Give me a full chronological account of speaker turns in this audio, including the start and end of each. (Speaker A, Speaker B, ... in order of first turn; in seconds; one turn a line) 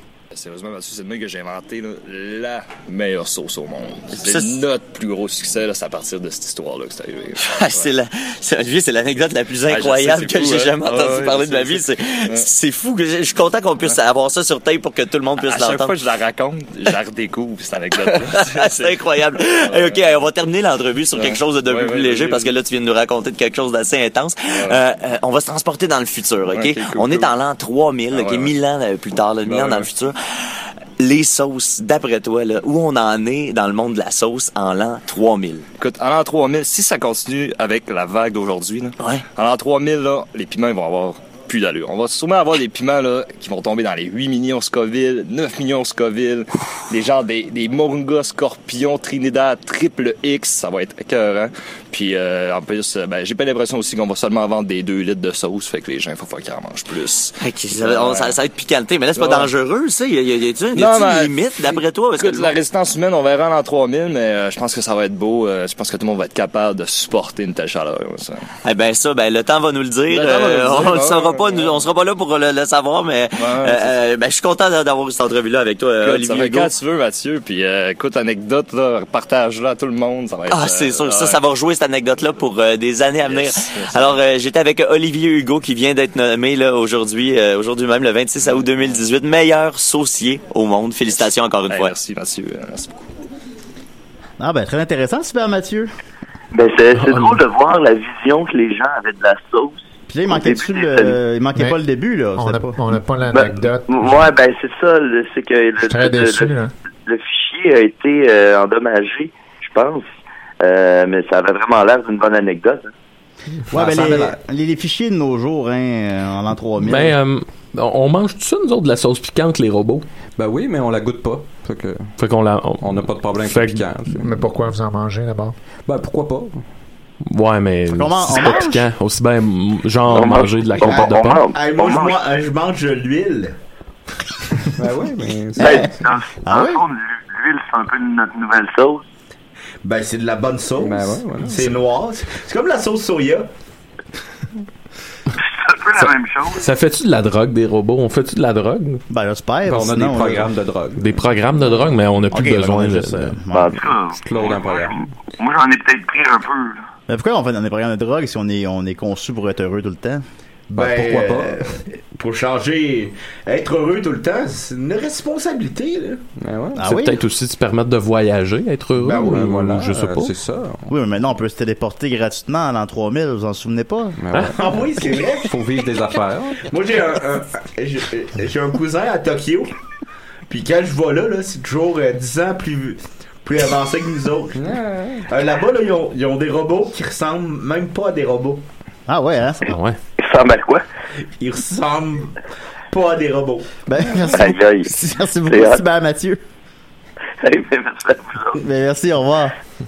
Speaker A: 0.3-7.9
Speaker B: 4.2-4.6
Speaker B: 7.4-16.0
Speaker A: 9.7-12.5
Speaker A: 15.4-20.0
Speaker B: 18.0-30.2
Speaker A: 21.1-22.5
Speaker A: 24.5-24.8
Speaker A: 26.5-27.4
Speaker A: 28.1-28.6
Speaker A: 29.5-29.9
Speaker B: 31.0-35.6
Speaker A: 35.8-58.4
Speaker B: 39.0-39.2
Speaker B: 57.4-62.5
Speaker A: 59.2-59.5
Speaker A: 60.8-68.4
Speaker B: 68.6-76.7
Speaker A: 70.1-71.8
Speaker A: 73.4-73.9
Speaker A: 76.0-81.4
Speaker B: 80.5-91.9
Speaker A: 83.2-84.2
Speaker A: 88.4-89.0
Speaker A: 91.7-93.1
Speaker C: 94.4-95.9
Speaker D: 96.5-101.2
Speaker E: 97.0-97.4
Speaker C: 100.1-102.8
Speaker F: 102.4-104.3
Speaker D: 103.3-106.5
Speaker F: 105.9-106.7
Speaker D: 107.1-110.0
Speaker D: 110.6-112.9
Speaker C: 113.7-117.2
Speaker G: 113.7-114.3
Speaker E: 116.8-120.0
Speaker G: 120.4-122.1
Speaker E: 122.2-123.8
Speaker G: 122.8-124.3
Speaker F: 124.1-125.5
Speaker G: 125.9-126.6
Speaker E: 127.3-131.4
Speaker C: 127.9-128.9
Speaker D: 130.1-132.2
Speaker H: 130.8-133.6
Speaker G: 134.8-135.9
Speaker C: 135.6-136.8
Speaker D: 135.6-139.0
Speaker H: 139.8-143.5
Speaker G: 140.8-141.8
Speaker D: 145.4-146.7
Speaker E: 146.0-149.0
Speaker C: 149.1-150.5
Speaker G: 149.6-151.2
Speaker E: 151.0-153.4
Speaker C: 152.3-153.9
Speaker D: 153.5-156.8
Speaker G: 154.2-155.0
Speaker C: 157.1-160.2
Speaker H: 160.7-166.2
Speaker G: 160.8-161.6
Speaker G: 166.4-166.9
Speaker C: 166.8-167.2
Speaker E: 166.8-170.3
Speaker H: 169.0-169.4
Speaker G: 169.2-170.9
Speaker C: 170.9-174.2
Speaker G: 174.2-174.6
Speaker H: 174.5-175.6
Speaker G: 175.5-176.7
Speaker H: 176.6-179.7
Speaker H: 180.5-184.6
Speaker G: 184.6-185.3
Speaker H: 185.3-188.6
Speaker C: 189.1-189.7
Speaker E: 189.7-190.0
Speaker D: 190.2-190.8
Speaker H: 191.4-192.4
Speaker H: 192.9-193.8
Speaker C: 193.9-196.4
Speaker D: 194.3-194.9
Speaker D: 195.5-195.8
Speaker D: 197.4-198.6
Speaker C: 198.6-199.6